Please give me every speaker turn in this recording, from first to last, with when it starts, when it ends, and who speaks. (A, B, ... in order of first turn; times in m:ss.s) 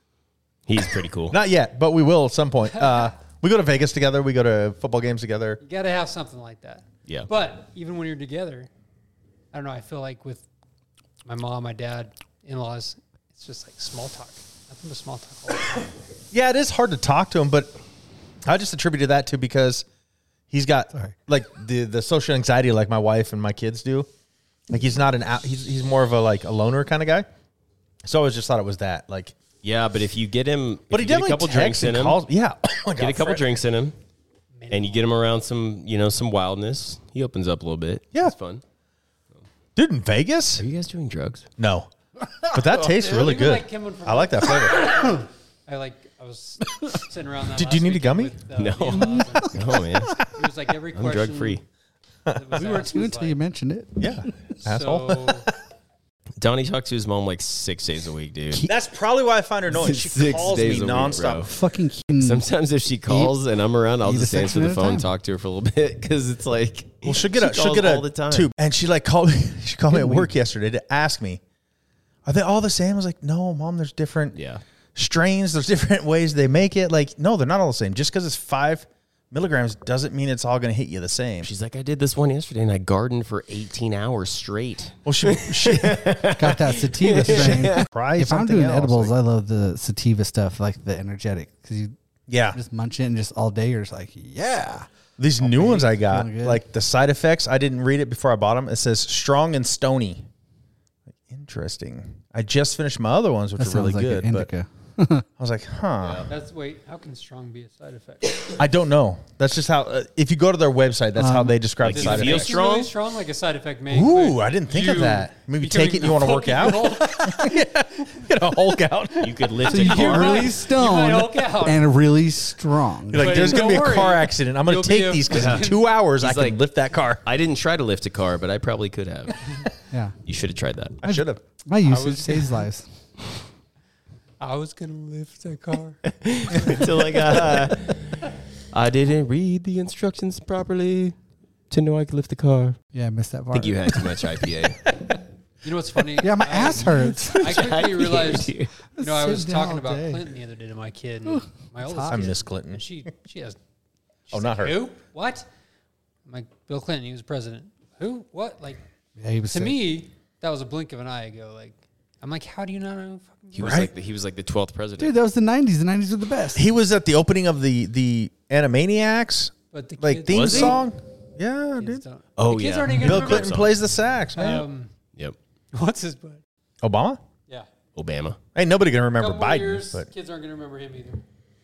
0:00.7-0:01.4 A
0:01.3-0:05.6 B
0:02.8-0:03.1 C
0:05.6-0:08.7 C
0:09.5-0:10.4 C
0:11.2-0:15.9 C
0:16.3-0:17.7 B
0:18.4-0:19.8 B
0:20.5-0:24.1 B
0:24.7-0:27.2 B
0:28.0-0:29.3 B
0:29.6-0:32.2 A
0:30.9-0:33.5 B
0:33.0-0:34.0 A
0:34.6-0:35.1 C
0:34.7-0:38.6 A
0:39.8-0:40.6 B
0:40.6-0:41.4 A
0:41.6-0:41.9 B
0:42.4-0:45.1 B
0:42.7-0:51.6 C
0:47.5-0:48.3 B
0:48.5-0:50.2 A
0:48.9-0:49.3 D
0:50.9-0:51.6 A
0:52.3-0:52.7 B
0:52.3-0:53.4 C
0:52.6-0:54.3 D
0:54.0-0:55.5 B
0:54.6-0:55.4 C
0:56.4-0:58.7 A
0:58.6-1:01.5 B
0:59.7-1:01.5 A
1:01.4-1:02.4 D
1:02.2-1:08.5 A
1:03.1-1:03.3 D
1:04.0-1:05.1 D
1:07.0-1:11.4 B
1:09.9-1:10.3 D
1:12.2-1:14.4 B
1:14.3-1:14.6 A
1:14.9-1:21.5 B
1:21.4-1:27.9 A
1:25.0-1:26.2 B
1:26.4-1:31.9 D
1:27.2-1:29.1 B
1:32.3-1:32.6 B
1:32.5-1:34.9 D
1:35.2-1:40.2 B
1:35.4-1:36.6 D
1:41.3-1:44.5 B
1:43.6-1:45.2 D
1:45.4-1:46.3 B
1:46.0-1:46.3 A
1:46.3-1:48.5 C
1:48.6-1:52.6 B
1:51.2-1:51.6 D
1:51.8-1:52.9 A
1:51.8-1:57.6 C
1:53.9-1:59.5 B
1:59.2-2:00.6 A
1:59.6-2:03.5 D
1:59.7-2:01.9 C
2:03.1-2:07.2 B
2:03.2-2:05.8 C
2:05.3-2:05.7 A
2:06.2-2:06.6 A
2:07.2-2:09.4 A
2:10.2-2:11.0 A
2:11.0-2:11.4 B
2:11.0-2:12.9 D
2:11.8-2:12.7 C
2:14.4-2:16.0 C
2:16.0-2:21.2 A
2:21.7-2:22.8 A
2:22.9-2:24.3 D
2:23.5-2:24.9 A
2:25.6-2:33.6 C
2:26.2-2:27.7 D
2:27.3-2:28.7 A
2:29.0-2:30.2 D
2:31.3-2:32.3 D
2:32.1-2:32.8 B
2:34.3-2:35.5 C
2:34.3-2:34.8 B
2:36.2-2:38.8 C
2:39.2-2:39.8 D
2:39.5-2:43.8 C
2:43.5-2:45.2 A
2:43.6-2:43.9 B
2:45.0-2:46.6 D
2:46.5-2:52.0 B
2:49.7-2:50.8 C
2:50.3-2:50.8 A
2:51.8-2:53.6 C
2:52.4-2:53.8 A
2:53.0-2:54.6 B
2:54.4-2:54.9 C
2:55.7-2:56.4 C
2:56.8-2:57.2 B
2:58.0-2:58.4 A
2:58.5-3:00.1 B
2:59.2-3:01.2 C